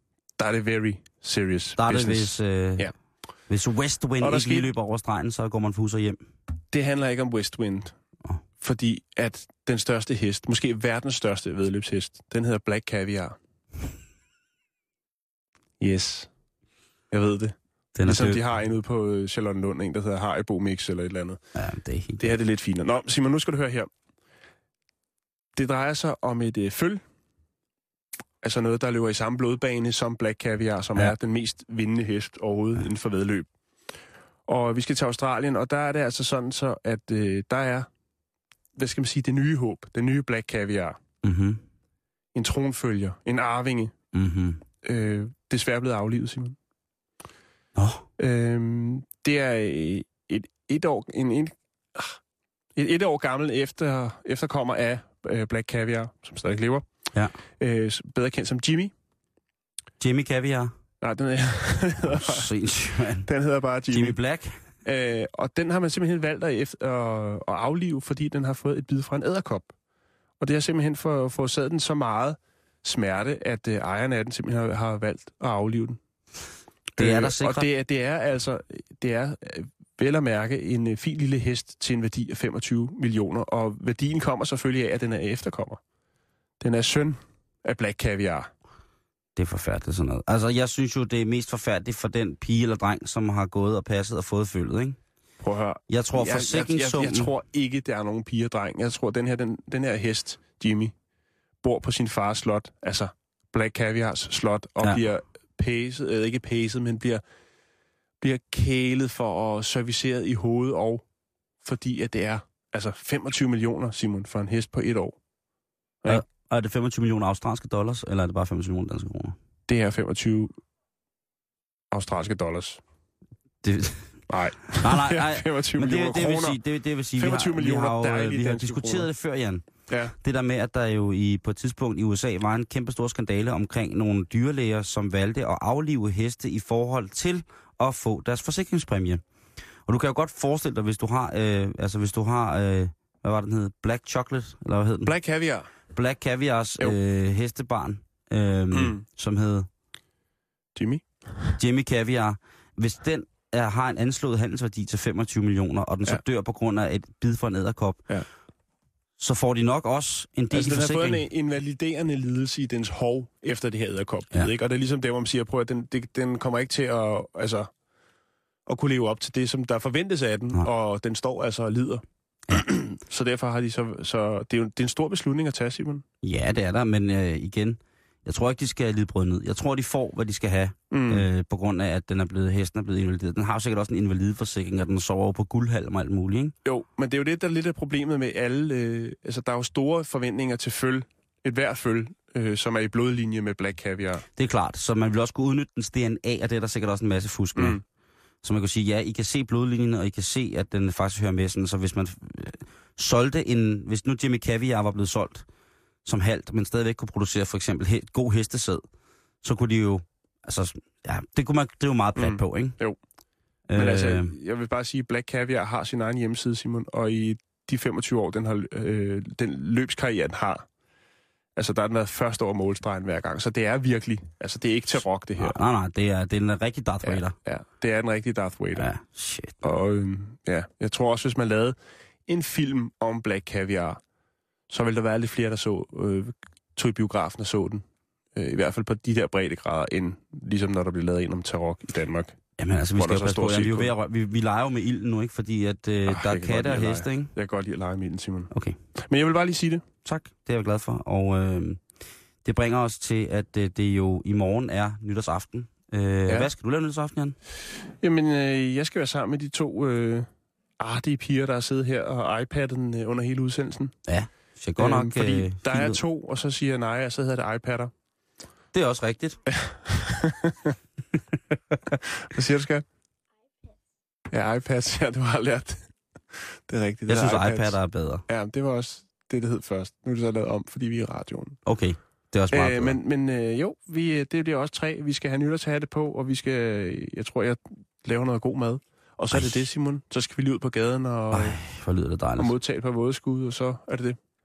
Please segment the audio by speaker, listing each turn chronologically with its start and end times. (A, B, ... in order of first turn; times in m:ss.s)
0:00.4-0:02.9 A
0:01.8-0:02.9 B
0:03.5-0:06.2 B
0:04.2-0:04.7 A
0:06.7-0:07.9 A
0:08.6-0:13.4 A
0:15.8-0:16.3 A
0:17.1-0:21.4 A
0:17.9-0:18.4 B
0:21.5-0:22.4 B
0:22.2-0:23.9 A
0:25.5-0:27.0 A
0:28.4-0:33.5 A
0:34.5-0:37.9 A
0:38.8-0:41.0 A
0:41.2-0:41.6 B
0:42.3-0:43.9 A
0:44.1-0:44.6 B
0:44.8-0:46.6 A
0:47.8-0:48.0 B
0:48.2-0:52.2 A
0:52.8-0:56.8 A
0:57.6-0:58.9 A
1:00.0-1:00.7 B
1:01.0-1:02.5 A
1:02.0-1:03.3 B
1:03.2-1:04.2 A
1:03.9-1:04.6 B
1:04.8-1:09.7 A
1:10.4-1:16.0 A
1:17.0-1:17.7 B
1:17.0-1:25.8 A
1:26.6-1:28.5 A
1:29.4-1:35.0 B
1:35.4-1:40.9 A
1:35.9-1:37.3 B
1:41.6-1:47.2 A
1:48.2-1:51.0 A
1:51.6-1:55.2 A
1:56.0-1:59.4 B
1:59.7-2:00.6 A
2:01.9-2:02.8 A
2:03.6-2:04.1 B
2:04.3-2:06.6 A
2:04.7-2:09.7 B
2:07.2-2:09.1 A
2:09.9-2:10.1 A
2:10.2-2:19.2 B
2:19.9-2:25.1 B
2:25.0-2:25.7 A
2:25.9-2:29.7 B
2:28.7-2:29.0 A
2:30.7-2:31.5 A
2:31.6-2:38.1 B
2:39.2-2:41.2 B
2:40.5-2:47.7 A
2:48.7-2:56.0 A
2:56.2-3:06.5 B
3:00.9-3:01.2 A
3:06.6-3:14.2 A
3:14.4-3:17.8 B
3:17.6-3:17.8 A
3:18.4-3:25.4 B
3:26.0-3:28.8 B
3:29.4-3:32.8 B
3:32.2-3:33.0 A
3:33.7-3:34.3 B
3:33.7-3:40.6 A
3:41.6-3:45.6 A
3:45.4-3:47.3 B
3:47.0-3:48.8 A
3:48.7-3:49.7 B
3:49.6-3:51.8 A
3:52.3-3:54.0 A
3:54.7-3:57.8 A
3:58.3-4:02.4 A
4:02.6-4:07.3 B
4:03.0-4:03.9 A
4:06.1-4:09.8 A
4:08.5-4:08.8 B
4:10.0-4:11.8 B
4:12.4-4:17.4 B
4:18.0-4:20.3 A
4:20.8-4:23.9 A
4:24.1-4:26.0 B
4:24.8-4:27.9 A
4:28.7-4:29.4 B
4:29.5-4:30.8 A
4:31.9-4:32.8 A
4:34.3-4:37.8 A
4:37.1-4:38.2 B
4:38.3-4:41.6 A
4:41.6-4:43.0 B
4:42.5-4:51.6 A
4:49.3-4:49.6 B
4:51.3-4:52.5 B
4:52.4-4:54.2 A